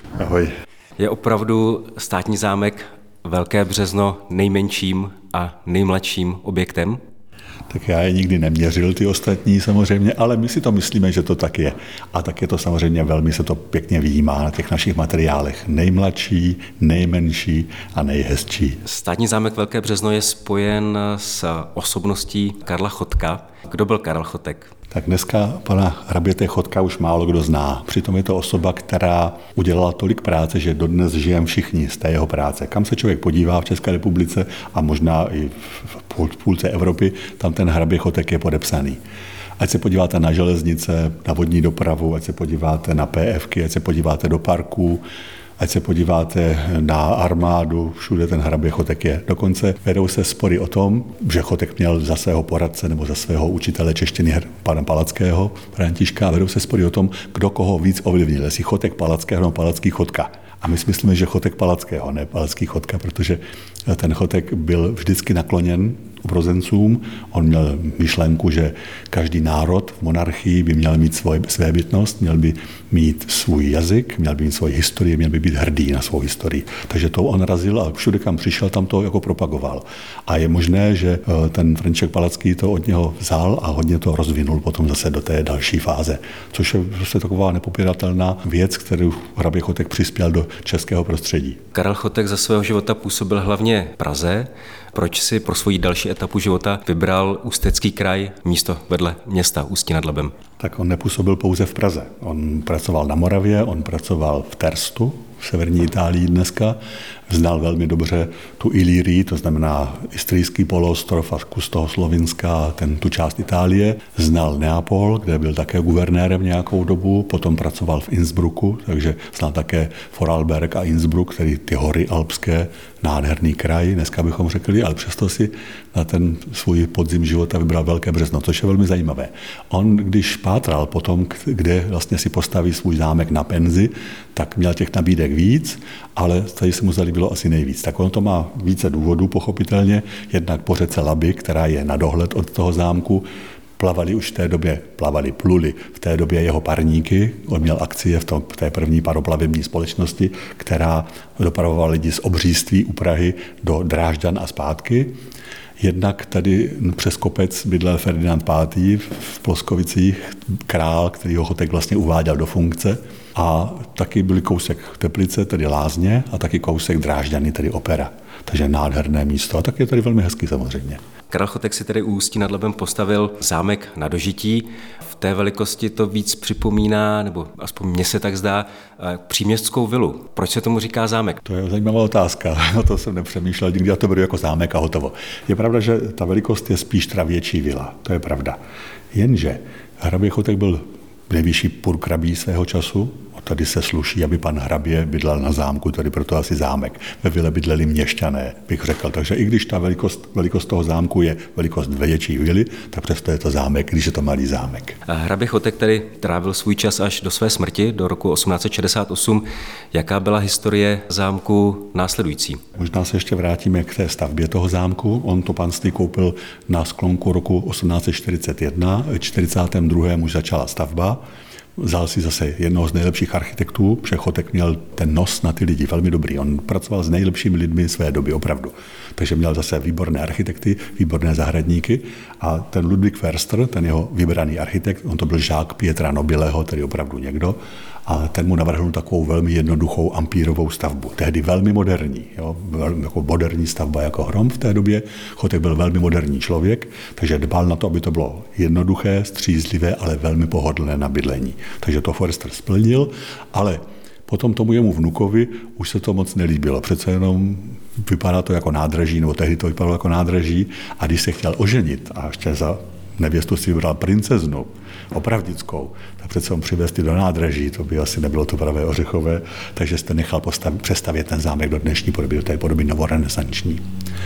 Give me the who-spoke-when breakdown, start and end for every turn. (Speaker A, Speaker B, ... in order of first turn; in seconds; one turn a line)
Speaker A: 0.2-0.5
Speaker B: 1.0-7.0
Speaker A: 7.7-18.8
Speaker B: 18.9-24.7
Speaker A: 24.9-39.0
Speaker A: 39.6-45.0
Speaker A: 45.6-91.6
Speaker B: 91.7-100.3
Speaker A: 100.6-143.3
Speaker A: 143.8-155.1
Speaker A: 155.8-171.0
Speaker B: 171.3-181.4
Speaker A: 181.4-188.6
Speaker A: 189.1-205.0
Speaker B: 205.1-212.6
Speaker A: 212.8-221.2
Speaker A: 221.8-273.8